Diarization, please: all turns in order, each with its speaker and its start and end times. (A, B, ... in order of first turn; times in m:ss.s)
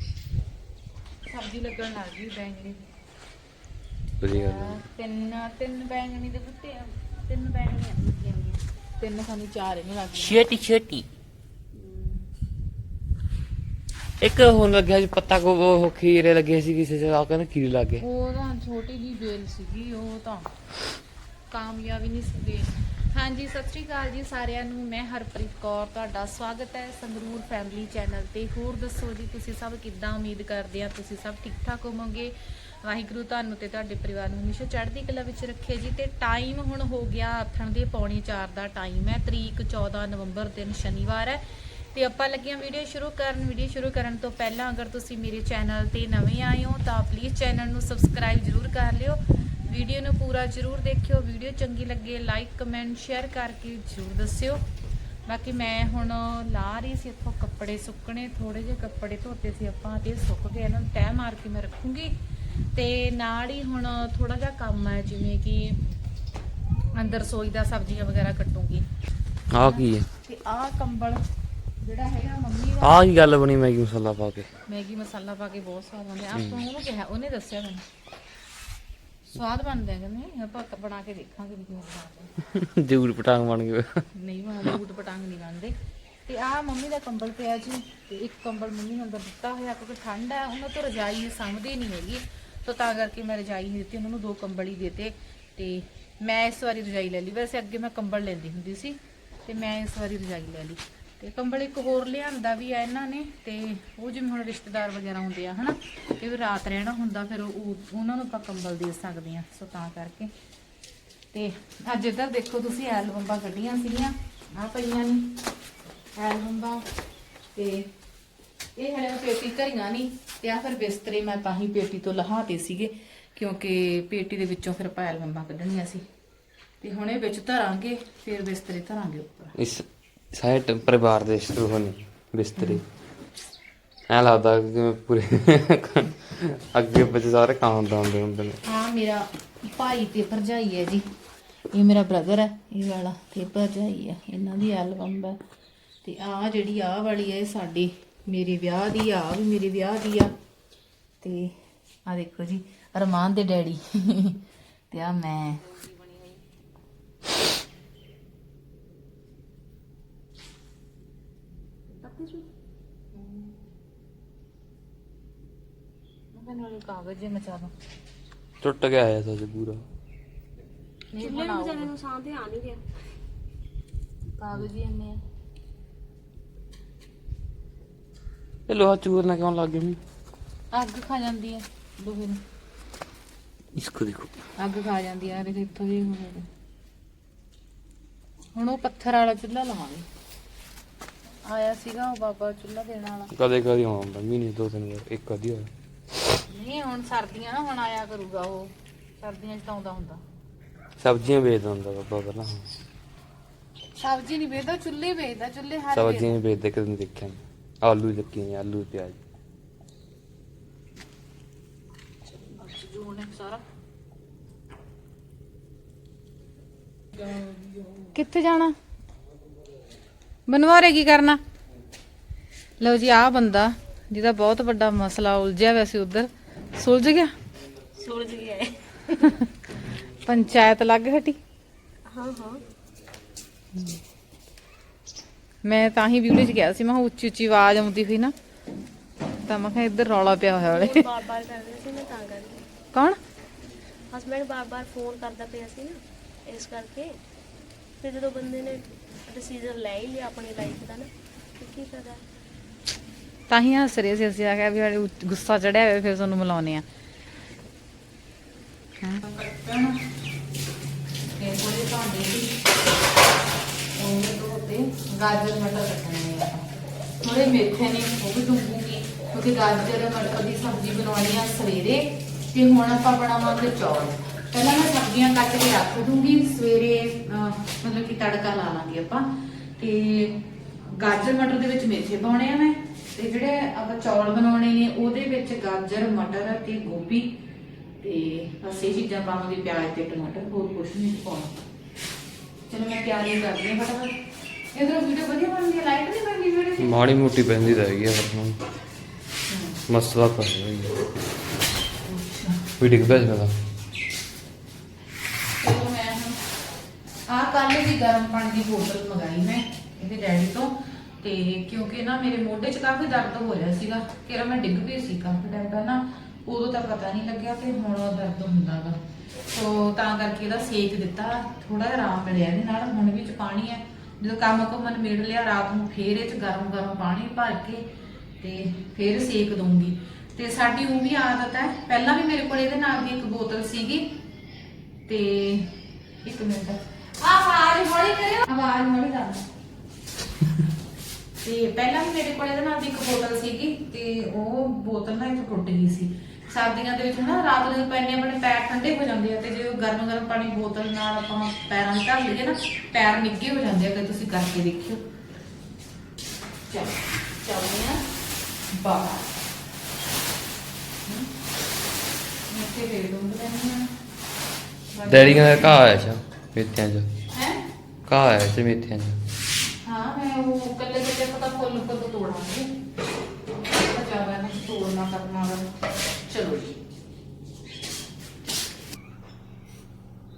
0:01.3-0:02.8 A
0:04.2-0:04.9 B
0:04.3-0:10.4 A
0:10.2-0:11.1 B
0:14.2-0:18.0 B
0:18.0-0:20.5 A
0:21.5-0:41.4 A
0:41.9-0:54.6 A
0:55.3-1:02.2 A
1:02.7-1:05.8 A
1:07.0-1:08.9 A
1:09.5-1:10.1 B
1:09.6-1:11.2 A
1:11.8-1:13.0 A
1:12.8-1:14.5 B
1:14.7-1:17.8 A
1:16.4-1:16.6 B
1:19.3-1:22.3 A
1:22.5-1:24.0 B
1:24.1-1:50.3 A
1:51.3-1:55.3 A
1:56.2-1:56.8 A
1:57.5-1:57.9 A
1:58.8-2:06.0 A
2:06.8-2:09.5 A
2:09.6-2:12.8 B
2:14.1-2:18.6 B
2:18.6-2:21.0 A
2:21.7-2:25.4 A
2:26.0-2:30.3 A
2:31.2-2:36.2 A
2:42.0-2:42.5 C
2:43.1-2:43.6 A
2:46.3-2:47.7 A
2:48.6-2:49.8 B
2:51.1-2:51.9 A
2:51.2-2:52.8 C
2:54.4-2:55.2 A
2:58.7-3:00.0 B
3:00.7-3:02.4 A
3:03.8-3:04.3 B
3:04.6-3:06.5 A
3:08.5-3:10.1 A
3:11.4-3:13.3 A
3:13.3-3:15.7 B
3:16.5-3:20.2 A
3:21.0-3:22.7 B
3:24.0-3:26.4 A
3:25.9-3:29.2 B
3:32.4-3:33.6 A
3:38.1-3:38.8 A
3:40.5-3:41.4 A
3:42.8-3:47.3 A
3:48.0-3:48.9 C
3:49.1-3:49.5 A
3:50.2-3:51.4 A
3:52.1-3:52.6 C
3:55.6-3:58.3 A
3:59.4-4:01.1 A
4:00.7-4:02.6 C
4:02.9-4:03.2 A
4:04.1-4:07.1 C
4:08.0-4:12.2 C
4:13.5-4:16.8 A
4:19.0-4:20.0 A
4:21.3-4:22.6 A
4:24.0-4:26.7 A
4:27.2-4:47.3 A
4:48.0-4:51.5 A
4:52.7-4:54.2 A
4:54.7-4:56.9 A
4:56.8-4:58.6 B
4:59.5-4:59.8 A
4:59.9-5:01.0 B
5:02.0-5:02.7 A
5:02.8-5:03.5 B
5:05.6-5:06.4 A
5:07.3-5:27.8 A
5:28.4-5:34.1 A
5:35.1-5:35.7 A
5:36.2-5:39.4 A
5:41.4-5:55.0 A
5:56.7-5:58.1 A
5:58.7-5:59.3 A
6:02.5-6:03.9 A
6:04.9-6:05.7 A
6:05.1-6:07.1 B
6:07.3-6:07.6 A
6:08.1-6:09.2 B
6:09.8-6:12.7 A
6:13.7-6:15.7 A
6:16.3-6:16.8 A